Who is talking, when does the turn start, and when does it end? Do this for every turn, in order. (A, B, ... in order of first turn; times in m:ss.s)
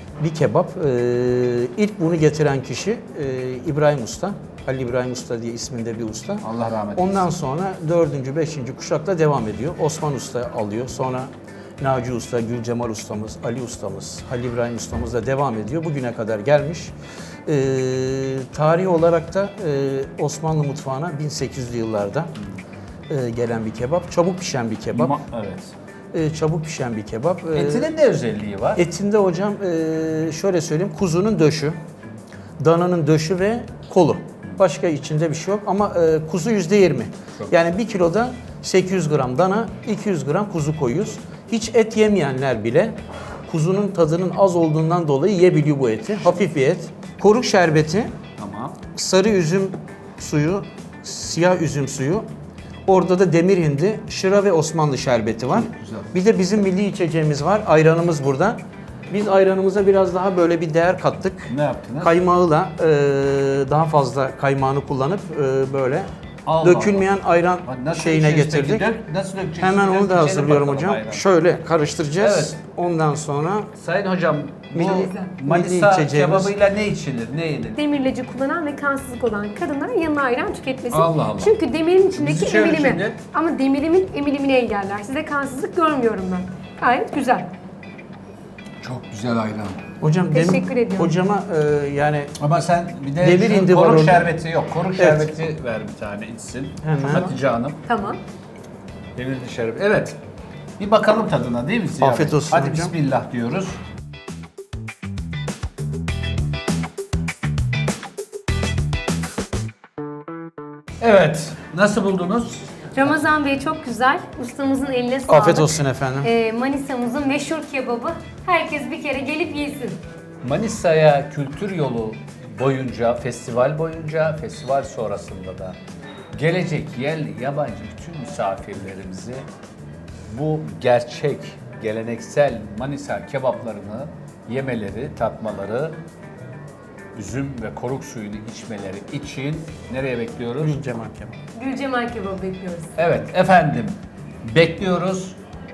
0:00.2-0:06.4 A
0:06.4-0:07.2 B
0:06.9-0:16.9 A
0:17.4-0:22.3 A
0:23.1-0:25.1 A
0:24.9-0:25.7 B
0:26.1-0:27.9 A
0:27.5-0:28.8 B
0:28.7-0:31.8 A
0:32.6-0:42.9 A
0:43.5-0:48.1 A
0:48.4-0:48.8 B
0:48.9-0:52.2 A
0:52.8-1:06.1 A
0:55.5-0:56.1 B
1:01.5-1:02.2 B
1:06.4-1:07.1 B
1:06.6-1:08.9 A
1:07.6-1:11.2 B
1:09.6-1:13.7 A
1:12.2-1:12.6 B
1:13.8-1:17.8 B
1:14.7-1:16.5 A
1:14.9-1:15.3 C
1:17.8-1:27.5 C
1:20.9-1:21.5 B
1:22.1-1:23.2 B
1:28.8-1:29.8 B
1:30.0-1:32.3 A
1:30.3-1:31.1 C
1:32.4-1:37.8 B
1:33.2-1:34.3 A
1:35.0-1:35.3 A
1:36.8-1:37.3 A
1:37.8-1:38.2 C
1:39.2-1:40.2 B
1:40.8-1:43.8 B
1:42.0-1:42.9 A
1:51.0-1:53.1 B
1:53.0-2:00.0 C
1:55.3-1:56.3 A
2:00.4-2:05.8 B
2:06.3-2:09.4 B
2:10.3-2:16.0 B
2:17.1-2:20.8 B
2:20.6-2:21.4 A
2:21.5-2:22.9 C
2:23.0-2:25.4 B